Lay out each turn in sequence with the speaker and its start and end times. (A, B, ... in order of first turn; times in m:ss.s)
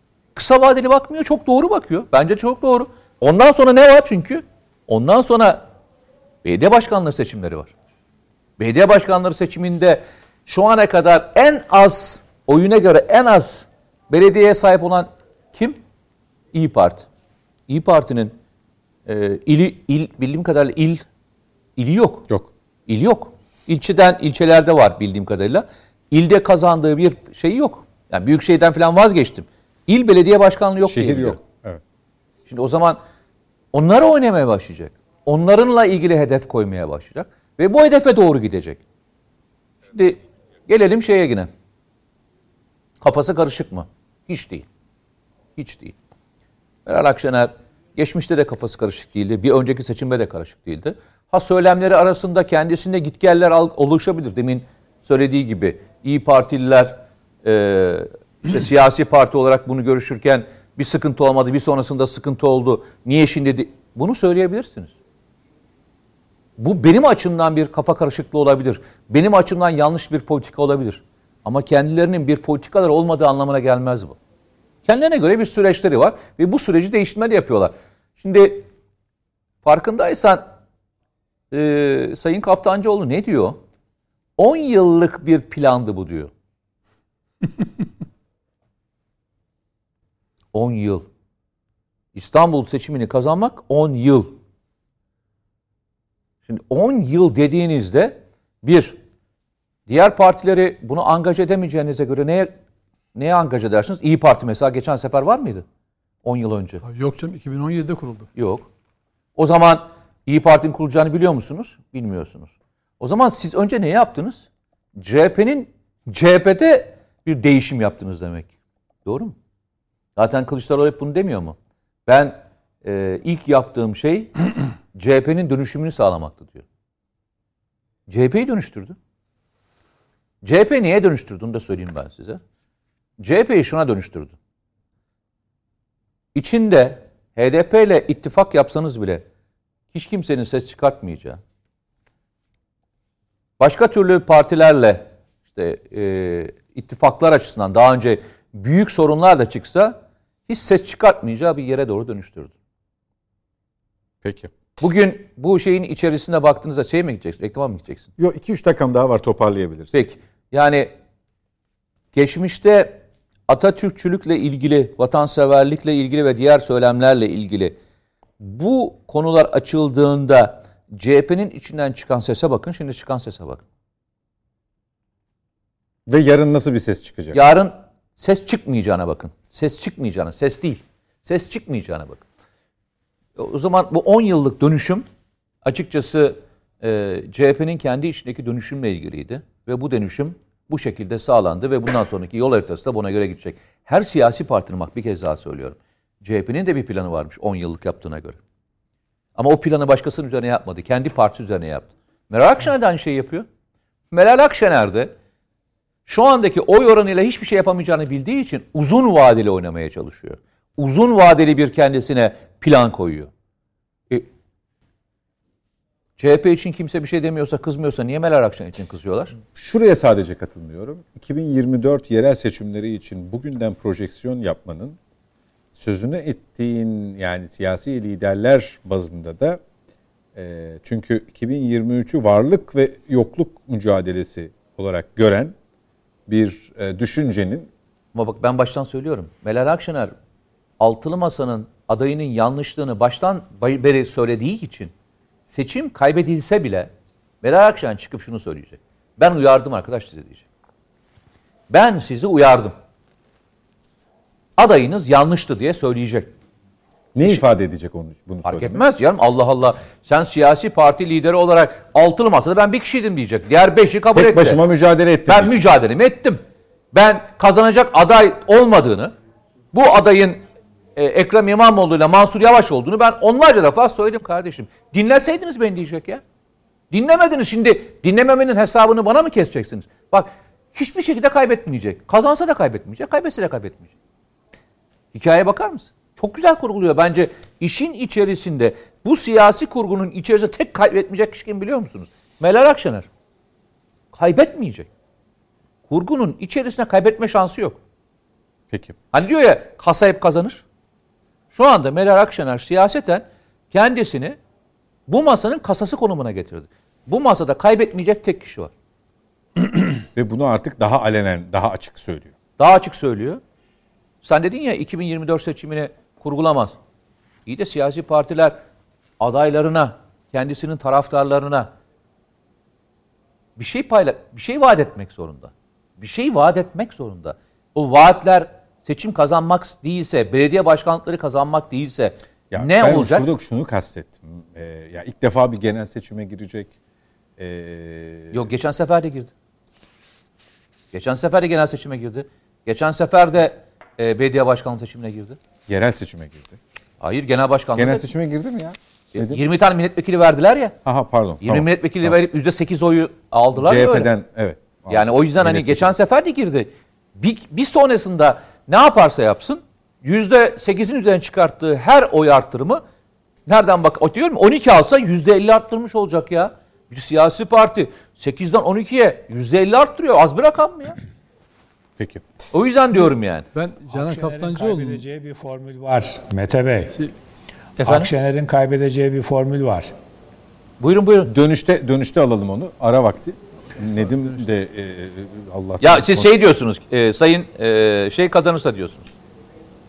0:00.4-0:05.6 A
0:06.4-0:07.7 A
0:08.6-0:15.8 A
0:16.5-0:17.1 A
0:17.7-0:18.3 A
0:19.1-0:21.0 A
0:21.8-0:22.3 A
0:22.9-0:31.4 A
0:30.9-0:31.8 B
0:32.5-0:33.0 A
0:33.7-0:38.8 A
0:39.9-0:41.5 A
0:43.0-0:44.7 A
0:45.6-0:46.0 A
0:46.9-1:04.9 A
1:06.6-1:14.2 A
1:14.8-1:18.7 A
1:19.6-1:20.4 A
1:21.5-1:23.6 A
1:24.4-1:26.3 A
1:30.5-1:31.1 A
1:32.2-1:34.4 A
1:36.5-1:39.0 A
1:39.9-1:42.5 A
1:43.2-1:45.6 A
1:46.2-1:46.8 A
1:46.8-1:48.3 C
1:48.4-1:48.7 A
1:49.4-1:58.5 A
1:59.0-1:59.4 A
2:00.2-2:01.6 A
2:02.1-2:04.3 A
2:04.9-2:06.6 A
2:08.1-2:09.0 A
2:10.4-2:12.4 A
2:13.2-2:14.3 A
2:16.4-2:19.2 A
2:19.9-2:21.4 A
2:23.6-2:30.0 A
2:30.5-2:32.5 A
2:34.2-2:34.5 B
2:34.8-2:38.1 A
2:38.2-2:40.0 B
2:39.9-2:40.9 A
2:42.1-2:47.8 A
2:48.4-2:53.6 A
2:56.1-2:57.4 B
2:57.3-3:02.2 A
3:03.4-3:05.0 A
3:05.6-3:18.4 A
3:19.4-3:23.5 A
3:24.1-3:25.1 A
3:26.1-3:33.3 A
3:36.2-3:39.3 A
3:39.6-3:45.0 B
3:45.8-3:49.6 B
3:50.4-3:55.6 B
3:56.3-3:57.7 B
3:58.1-4:00.1 A
4:00.8-4:04.9 A
4:05.5-4:10.4 A
4:11.7-4:12.8 A
4:14.6-4:16.3 A
4:17.1-4:18.8 B
4:18.4-4:24.6 A
4:24.1-4:25.7 B
4:25.3-4:26.4 A
4:26.9-4:29.1 A
4:29.7-4:30.4 A
4:31.0-4:36.2 A
4:36.9-4:43.9 A
4:45.1-4:53.1 A
4:54.1-4:54.9 A
4:55.9-4:57.8 A
4:58.7-4:59.0 B
4:59.1-5:00.6 A
5:01.5-5:04.4 A
5:05.1-5:08.7 A
5:10.2-5:12.3 B
5:12.6-5:13.4 A
5:14.2-5:16.8 A
5:17.5-5:18.6 A
5:19.2-5:21.7 A
5:23.6-5:33.3 A
5:32.5-5:36.7 B
5:37.4-5:38.5 B
5:38.3-5:39.3 A
5:40.9-5:45.4 A
5:45.7-5:46.6 B
5:47.0-5:48.1 A
5:47.8-5:49.4 B
5:49.2-5:50.8 A
5:50.8-5:52.2 B
5:51.4-5:54.1 A
5:53.6-5:56.0 B
5:54.9-6:02.8 A
6:03.5-6:11.0 A
6:12.0-6:12.3 B
6:12.5-6:13.5 A
6:13.5-6:15.0 C
6:13.9-6:17.0 D
6:17.8-6:18.1 A
6:17.8-6:19.9 D
6:20.8-6:21.3 A
6:21.3-6:26.3 B
6:24.0-6:24.5 C
6:25.8-6:29.1 A